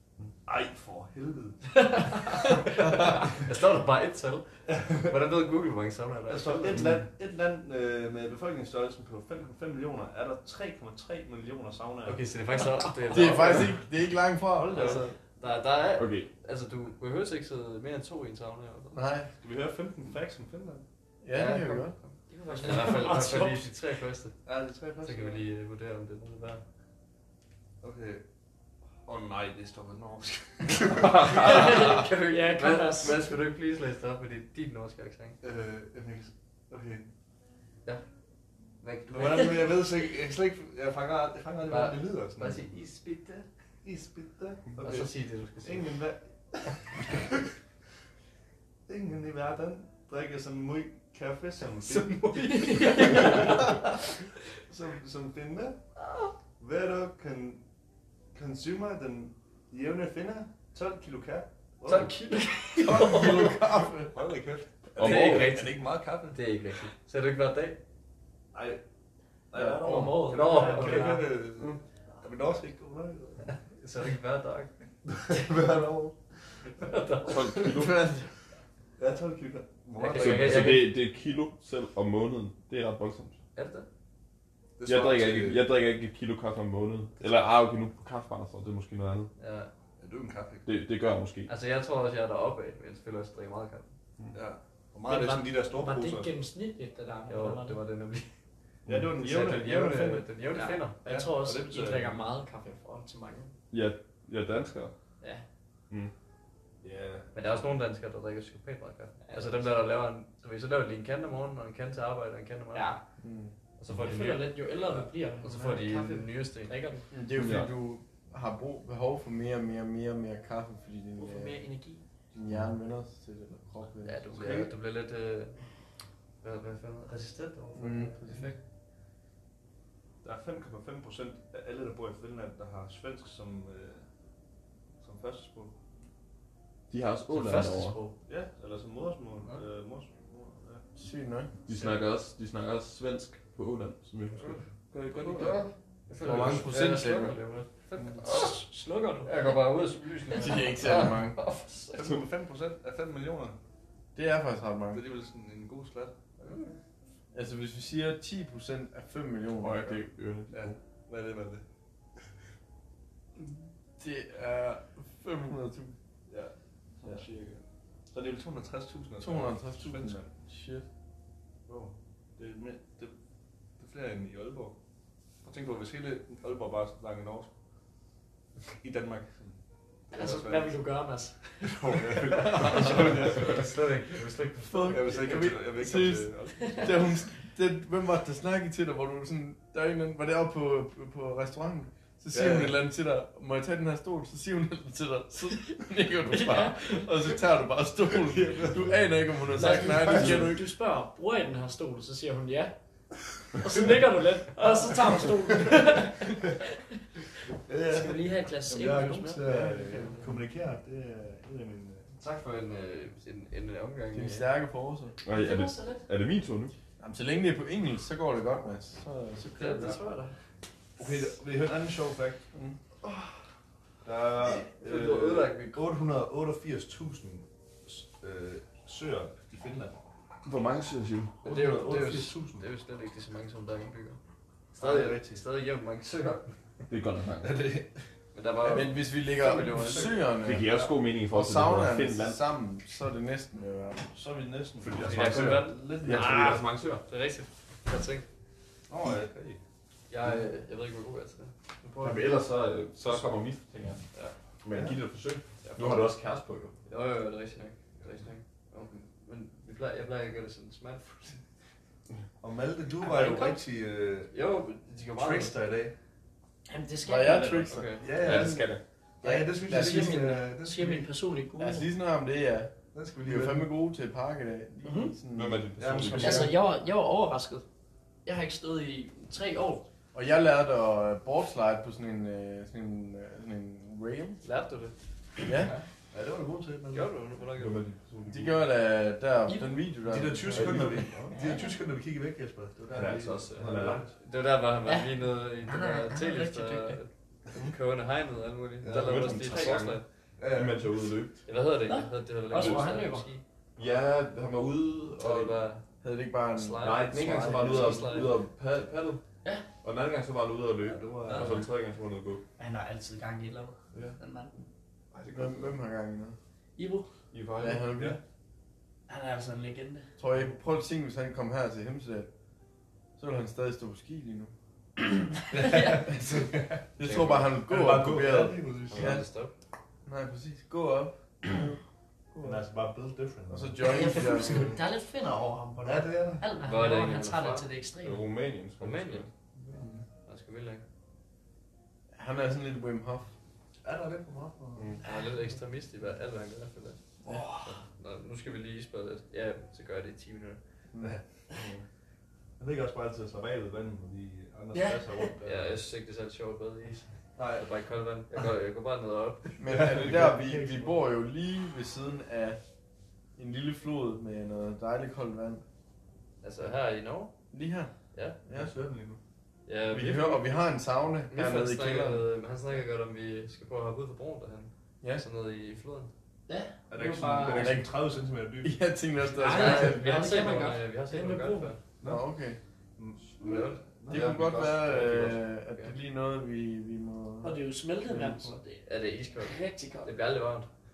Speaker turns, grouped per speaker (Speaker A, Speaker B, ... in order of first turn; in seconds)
Speaker A: 0.5-2.0, 4.7-5.1, 6.3-12.2, 19.4-20.8, 24.4-25.4, 27.8-28.2, 29.1-31.8, 35.4-37.1, 39.1-42.7, 43.8-47.5, 48.9-53.9, 54.7-55.8, 56.6-57.6, 58.3-62.1, 64.1-66.4, 68.5-68.8, 69.5-73.6, 75.1-76.2, 79.0-80.8, 84.8-85.7, 90.0-90.7, 94.3-96.3, 98.9-100.3, 101.1-102.3, 106.8-107.3, 124.3-124.7, 130.2-134.0, 135.0-135.8, 138.3-140.9, 144.9-145.7, 146.2-146.8, 151.9-153.6, 154.9-156.6, 160.5-161.6, 166.3-170.3, 171.7-173.1, 173.8-174.8, 175.4-177.5, 178.8-179.6, 180.1-180.8, 181.6-183.7, 184.9-187.1, 192.3-192.8, 198.2-199.0, 199.6-200.5, 205.5-206.0, 207.7-212.1, 221.0-222.4, 224.0-230.0, 231.4-232.7, 234.7-235.4, 237.4-238.0, 238.6-240.9, 244.1-246.6, 248.9-249.6, 254.7-255.0, 262.4-264.4, 265.1-265.9, 268.0-271.1, 272.9-273.7, 275.8-276.5, 286.1-287.1, 290.1-294.1, 298.8-299.5, 300.4-300.9, 310.8-311.6, 325.5-326.9, 327.6-329.2, 332.4-334.6, 335.8-336.5, 339.6-339.9, 343.8-344.9, 352.6-355.8, 357.4-357.7, 359.6-361.0, 368.5-369.2, 376.9-378.8, 382.0-382.3, 383.0-384.4, 388.1-388.6
Speaker B: 1.9-6.8, 12.1-13.8, 14.6-19.0, 21.3-24.4, 25.0-26.6, 31.2-35.4, 38.8-39.7, 41.7-43.5, 44.8-46.0, 51.8-53.6, 65.0-67.8, 70.2-71.3, 73.7-74.7, 76.8-77.6, 80.0-80.9, 83.5-83.9, 89.4-89.7, 91.5-93.9, 97.3-98.3, 99.2-101.0, 107.3-113.0, 113.8-116.9, 124.0-125.6, 126.4-128.6, 137.3-138.2, 144.3-148.6, 149.2-152.2, 156.4-156.8, 182.4-185.4, 212.2-214.5, 219.5-220.3, 224.7-225.8, 231.4-234.2, 234.8-236.5, 238.3-240.1, 245.0-248.3, 250.1-252.4, 255.6-256.1, 256.9-261.4, 263.0-263.6, 264.3-265.6, 267.7-268.4, 284.4-285.0, 286.9-287.9, 293.4-300.1, 301.5-303.4, 305.2-305.9, 306.6-308.4, 328.9-329.5, 336.6-337.7, 338.8-339.3, 340.2-340.9, 345.0-347.0, 347.6-350.6, 355.4-359.6, 366.4-367.3, 368.1-368.4, 369.7-370.6, 371.3-376.1, 379.5-381.8, 383.4-383.8, 385.7-385.9, 388.8-390.7
Speaker C: 13.1-15.2, 18.9-19.3, 21.2-22.0, 62.8-64.2, 69.5-70.2, 77.7-78.3, 113.2-113.5, 117.1-121.6, 122.3-124.7, 127.8-128.5, 141.0-141.5, 146.2-147.4, 150.3-151.4, 154.2-155.0, 157.3-160.1, 163.4-166.0, 169.2-170.9, 182.6-183.0, 184.6-200.7, 209.4-210.3, 214.1-215.2, 217.0-220.0, 222.5-222.8, 238.7-244.1, 267.0-268.5, 269.2-270.4, 271.6-276.5, 280.1-284.4, 285.4-285.7, 288.3-291.1, 306.0-308.5, 315.3-316.4, 317.6-318.2, 320.2-322.3, 323.2-324.5, 327.0-329.3, 330.1-331.8, 332.3-332.6, 333.5-334.8, 339.8-340.1, 342.1-343.3, 347.2-347.5, 359.6-362.6, 363.4-365.6, 367.5-367.9, 368.5-368.7, 369.9-372.3, 377.5-378.0, 378.6-380.2, 382.0-382.6, 384.1-388.5
Speaker D: 16.0-16.3, 31.0-31.9, 65.0-65.6, 77.2-78.0, 80.1-83.4, 84.8-89.3, 90.7-91.5, 98.9-99.2, 103.7-104.9, 117.3-117.8, 136.9-138.0, 141.7-144.6, 159.6-160.7, 215.2-216.7, 230.4-231.4, 236.9-237.7, 240.4-242.4, 244.8-247.1, 252.0-254.0, 254.6-256.8, 268.1-268.8, 275.3-276.5, 287.6-288.6, 290.5-291.1, 292.9-294.1, 298.9-301.4, 302.5-302.9, 303.8-305.6, 306.8-309.2, 309.8-312.4, 315.1-315.8, 317.3-317.9, 338.0-339.3, 344.8-345.0, 351.5-351.8, 384.1-385.4
Speaker E: 22.3-23.7, 31.4-33.3, 52.3-53.9, 61.9-63.6, 69.8-71.3, 95.1-97.8, 100.5-103.5, 109.2-109.8, 112.7-113.0, 114.0-117.1, 121.2-122.0, 148.2-149.4, 180.1-182.9, 196.2-197.0, 199.5-202.8, 203.5-207.0, 207.8-209.4, 215.3-216.1, 266.7-267.8, 269.6-271.9, 274.8-275.1, 276.1-277.6, 278.2-279.9, 289.5-289.8, 291.3-291.8, 294.9-297.0, 301.8-303.3, 311.3-311.7, 312.6-314.6, 316.8-317.1, 319.1-320.1, 325.6-326.1, 333.8-338.3, 345.0-345.3, 347.3-347.8, 354.7-355.3, 376.5-377.8, 379.3-381.7, 387.4-390.2